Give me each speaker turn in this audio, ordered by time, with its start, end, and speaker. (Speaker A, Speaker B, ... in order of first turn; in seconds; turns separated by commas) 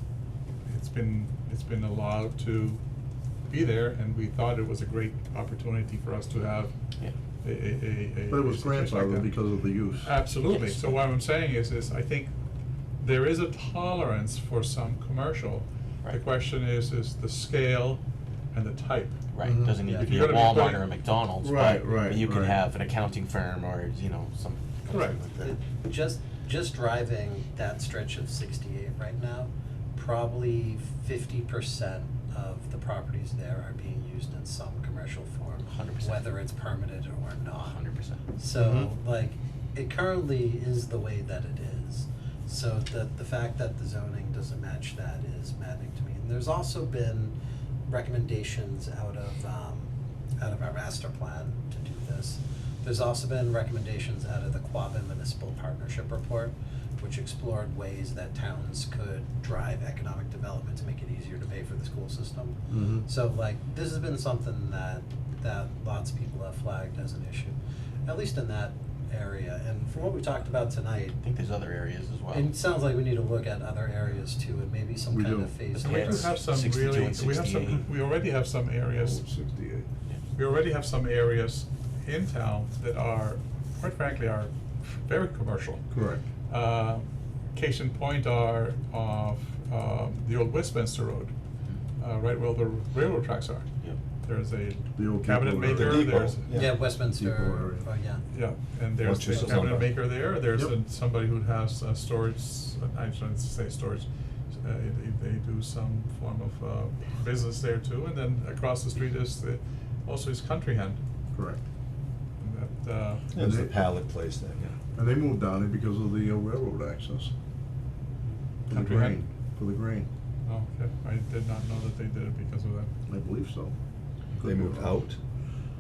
Speaker A: 0.7-2.8, Speaker A: 3.5-6.7, Speaker A: 7.4-9.3, Speaker B: 8.3-10.1, Speaker A: 10.0-12.3, Speaker C: 10.4-11.0, Speaker A: 13.0-18.0, Speaker A: 18.5-19.2, Speaker C: 19.3-25.6, Speaker B: 19.4-19.8, Speaker D: 19.8-20.1, Speaker A: 19.9-20.9, Speaker B: 21.4-22.6, Speaker A: 24.9-25.2, Speaker D: 25.4-37.8, Speaker C: 35.6-36.3, Speaker C: 37.6-38.2, Speaker D: 38.3-47.4, Speaker B: 38.5-38.9, Speaker D: 47.9-71.2, Speaker B: 62.7-63.1, Speaker C: 71.2-72.5, Speaker D: 72.3-76.3, Speaker B: 75.1-75.6, Speaker C: 75.7-77.9, Speaker A: 75.8-79.2, Speaker B: 78.9-79.9, Speaker A: 80.3-85.8, Speaker B: 85.9-86.3, Speaker A: 86.5-91.3, Speaker A: 92.0-93.7, Speaker A: 94.2-96.4, Speaker B: 95.0-97.9, Speaker E: 95.7-96.8, Speaker D: 96.5-98.2, Speaker A: 98.3-111.0, Speaker E: 99.0-99.9, Speaker B: 111.3-111.6, Speaker A: 112.4-113.2, Speaker E: 113.3-114.7, Speaker B: 113.4-113.7, Speaker B: 114.9-117.3, Speaker B: 118.7-120.1, Speaker A: 118.7-119.2, Speaker A: 120.5-122.9, Speaker B: 123.1-123.7, Speaker B: 124.4-125.0, Speaker E: 124.4-125.2